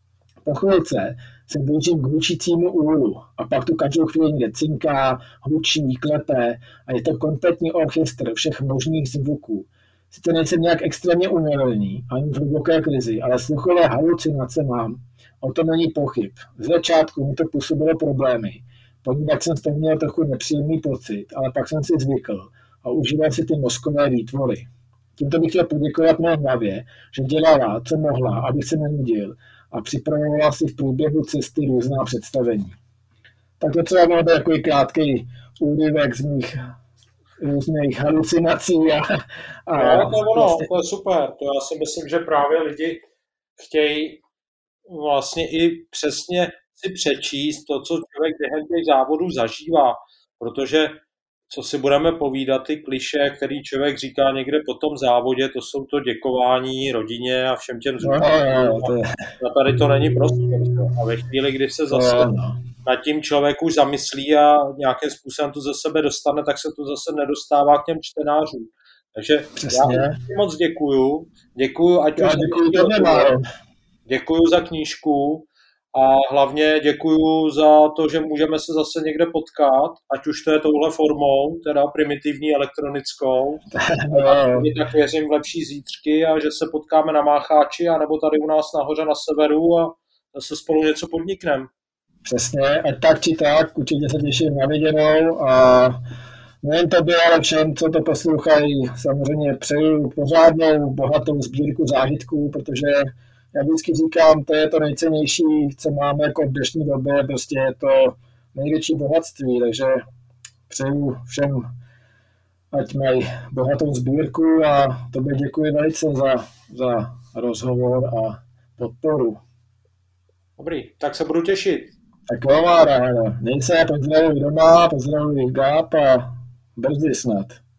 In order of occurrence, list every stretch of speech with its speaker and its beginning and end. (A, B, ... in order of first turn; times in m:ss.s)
0:00.4-0:32.8 A
0:33.6-0:36.5 A
0:37.4-0:39.1 A
0:39.7-0:40.7 A
0:39.7-0:43.0 B
0:43.6-0:44.2 B
0:44.9-1:02.3 B
0:58.0-0:59.1 A
1:01.9-1:02.6 A
1:02.8-1:13.3 B
1:09.6-1:10.2 A
1:12.2-1:13.4 A
1:14.0-1:31.7 B
1:23.7-1:24.7 A
1:32.2-1:36.0 A
1:36.6-1:50.0 A
1:50.7-1:51.6 A
1:52.7-1:59.4 A
2:00.6-2:01.9 B
2:02.3-2:07.6 A